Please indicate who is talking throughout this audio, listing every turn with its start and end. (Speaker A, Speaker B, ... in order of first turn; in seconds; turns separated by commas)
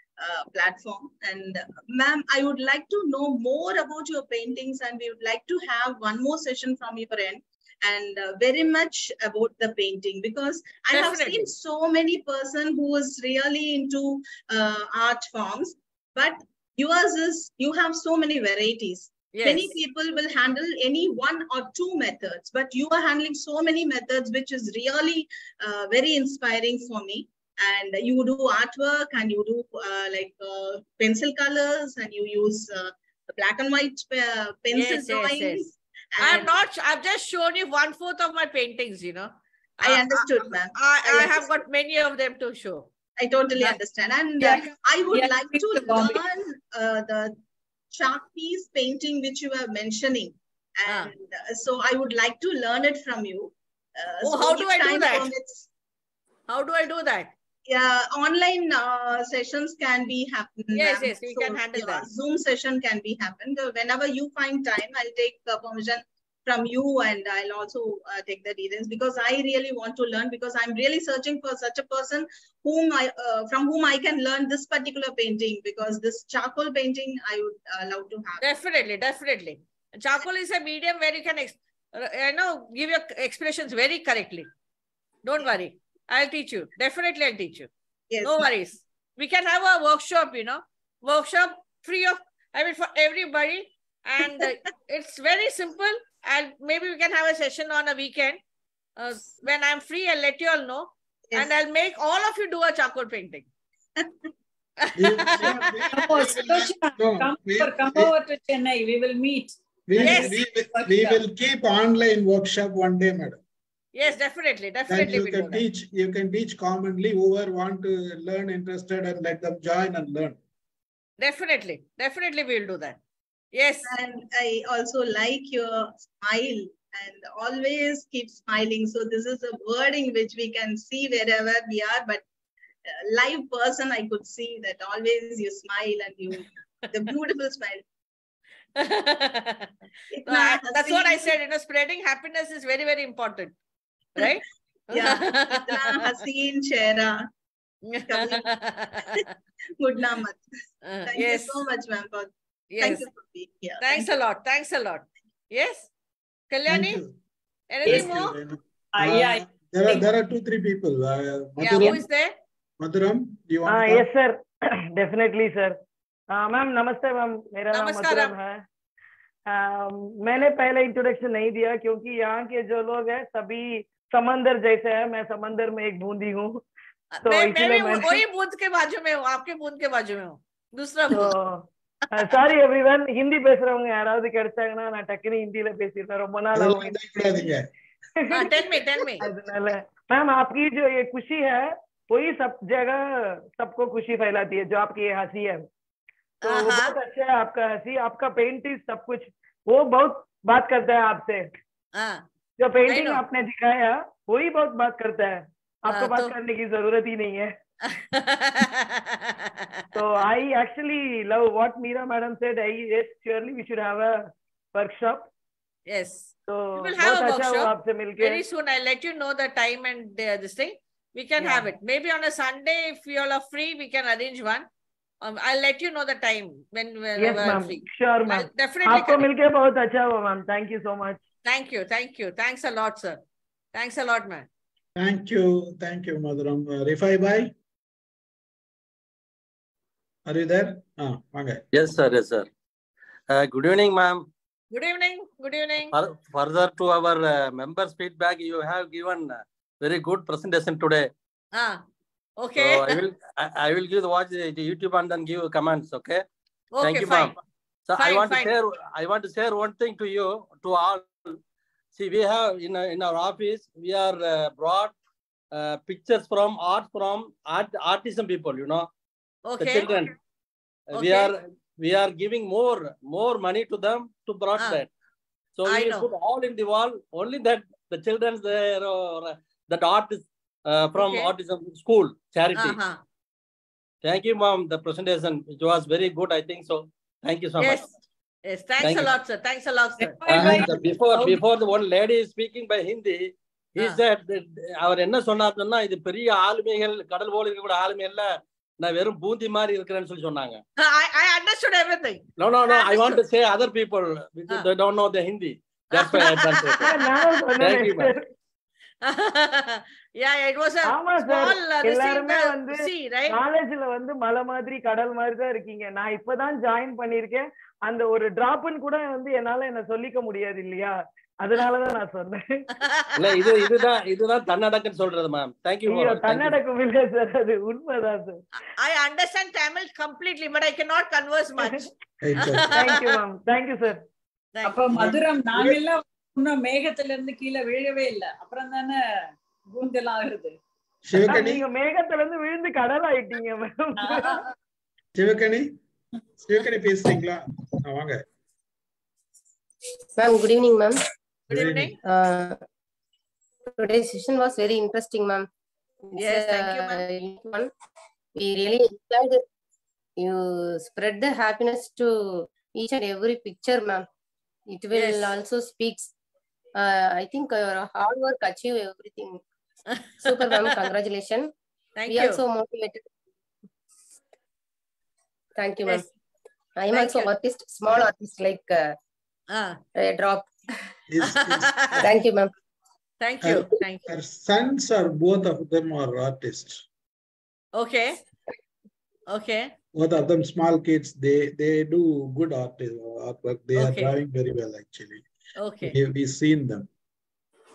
Speaker A: 0.2-36.5, Speaker B: 10.9-11.5, Speaker B: 19.3-19.8, Speaker B: 34.7-35.6, Speaker B: 36.2-42.9, Speaker A: 39.8-41.6, Speaker A: 43.2-47.4, Speaker C: 44.5-46.2, Speaker A: 47.9-55.7, Speaker B: 50.9-51.1, Speaker B: 54.2-55.3, Speaker B: 56.5-57.3, Speaker A: 57.7-78.5, Speaker B: 60.7-62.1, Speaker B: 78.4-84.5, Speaker B: 85.2-87.7, Speaker A: 88.1-88.5, Speaker B: 88.2-98.4, Speaker A: 94.2-94.5, Speaker B: 99.0-103.5, Speaker B: 104.8-105.7, Speaker D: 105.0-108.1, Speaker C: 106.0-111.2, Speaker D: 109.9-113.4, Speaker B: 110.0-110.4, Speaker B: 114.0-115.6, Speaker D: 114.9-120.4, Speaker B: 121.2-123.0, Speaker B: 123.5-123.9, Speaker A: 123.8-132.2, Speaker A: 133.1-137.8, Speaker B: 138.8-139.7, Speaker A: 140.1-141.3, Speaker B: 140.2-143.6, Speaker B: 144.2-146.2, Speaker A: 144.9-147.3, Speaker B: 147.9-149.3, Speaker A: 148.1-148.5, Speaker A: 149.8-150.4, Speaker B: 150.8-151.6, Speaker A: 151.1-154.1, Speaker B: 152.7-153.1, Speaker B: 153.8-155.9, Speaker B: 156.5-157.0, Speaker D: 156.7-157.1, Speaker B: 157.7-158.3, Speaker D: 157.8-162.1, Speaker C: 158.9-160.0, Speaker B: 161.6-162.3, Speaker D: 162.8-164.1, Speaker E: 163.7-164.4, Speaker E: 164.9-165.8, Speaker E: 166.3-168.6, Speaker B: 167.7-168.3, Speaker E: 169.5-176.6, Speaker B: 177.1-181.3, Speaker E: 177.2-178.2, Speaker E: 181.1-187.2, Speaker D: 186.5-187.7, Speaker E: 188.2-195.7, Speaker B: 188.3-189.2, Speaker B: 196.4-196.9, Speaker E: 196.4-201.5, Speaker B: 201.9-202.2, Speaker E: 202.6-207.5, Speaker B: 202.9-203.2, Speaker B: 205.9-206.3, Speaker B: 207.9-210.0, Speaker E: 209.9-214.2, Speaker E: 214.7-215.3, Speaker B: 215.9-224.7, Speaker E: 216.5-218.4, Speaker E: 221.4-221.7, Speaker B: 225.2-229.3, Speaker E: 227.2-231.2, Speaker B: 231.4-233.2, Speaker B: 233.7-234.5, Speaker D: 235.0-237.5, Speaker D: 240.3-241.6, Speaker F: 241.7-242.5, Speaker F: 243.3-244.3, Speaker B: 244.7-245.9, Speaker F: 245.9-251.1, Speaker B: 251.5-251.8, Speaker B: 252.4-253.0, Speaker F: 252.6-256.2, Speaker B: 256.7-257.4, Speaker F: 256.8-257.4, Speaker F: 257.9-261.4, Speaker B: 258.0-258.5, Speaker F: 261.9-264.9, Speaker F: 265.5-268.9, Speaker B: 269.5-270.1, Speaker F: 269.6-270.1, Speaker B: 270.9-271.3, Speaker F: 270.9-274.9, Speaker B: 274.6-274.8, Speaker F: 275.6-282.8, Speaker B: 275.6-276.1, Speaker B: 280.9-281.3, Speaker B: 282.6-283.0, Speaker F: 284.0-287.9, Speaker B: 287.6-287.9, Speaker B: 288.4-290.2, Speaker F: 288.8-289.1, Speaker C: 290.0-290.7, Speaker D: 290.3-290.9, Speaker F: 290.3-300.6, Speaker B: 300.8-303.2, Speaker F: 302.4-306.9, Speaker B: 305.9-306.9, Speaker E: 306.9-308.3, Speaker F: 307.6-308.1, Speaker B: 309.0-313.4, Speaker E: 310.9-322.7, Speaker B: 322.8-323.7, Speaker F: 323.2-326.6, Speaker E: 325.9-328.4, Speaker B: 328.8-331.9, Speaker E: 331.6-331.9, Speaker D: 332.2-333.0, Speaker B: 332.4-333.0, Speaker E: 332.7-334.0, Speaker C: 334.7-340.6, Speaker D: 334.9-335.8, Speaker D: 341.1-341.6, Speaker E: 341.2-344.4, Speaker C: 344.0-344.4, Speaker D: 345.1-345.7, Speaker D: 346.4-348.2, Speaker G: 350.2-351.0, Speaker B: 351.5-351.9, Speaker D: 351.5-351.9, Speaker G: 352.0-352.6, Speaker G: 353.8-355.5, Speaker G: 356.1-357.7, Speaker B: 356.2-357.0, Speaker G: 358.4-359.4, Speaker G: 360.2-364.1, Speaker G: 364.7-366.1, Speaker B: 364.9-365.3, Speaker G: 366.8-369.4, Speaker B: 369.9-370.4, Speaker G: 370.2-371.5, Speaker B: 372.0-372.4, Speaker G: 372.1-373.0, Speaker G: 375.6-376.1, Speaker G: 376.8-379.0, Speaker B: 376.9-377.3, Speaker B: 379.5-379.8, Speaker G: 380.0-380.5, Speaker D: 381.1-382.1, Speaker B: 381.2-382.1, Speaker G: 382.0-382.5, Speaker B: 383.2-384.1, Speaker D: 383.4-386.9, Speaker B: 387.8-388.2, Speaker B: 389.3-389.7, Speaker D: 389.9-395.2, Speaker B: 393.8-394.1, Speaker B: 395.6-395.9, Speaker D: 395.8-396.9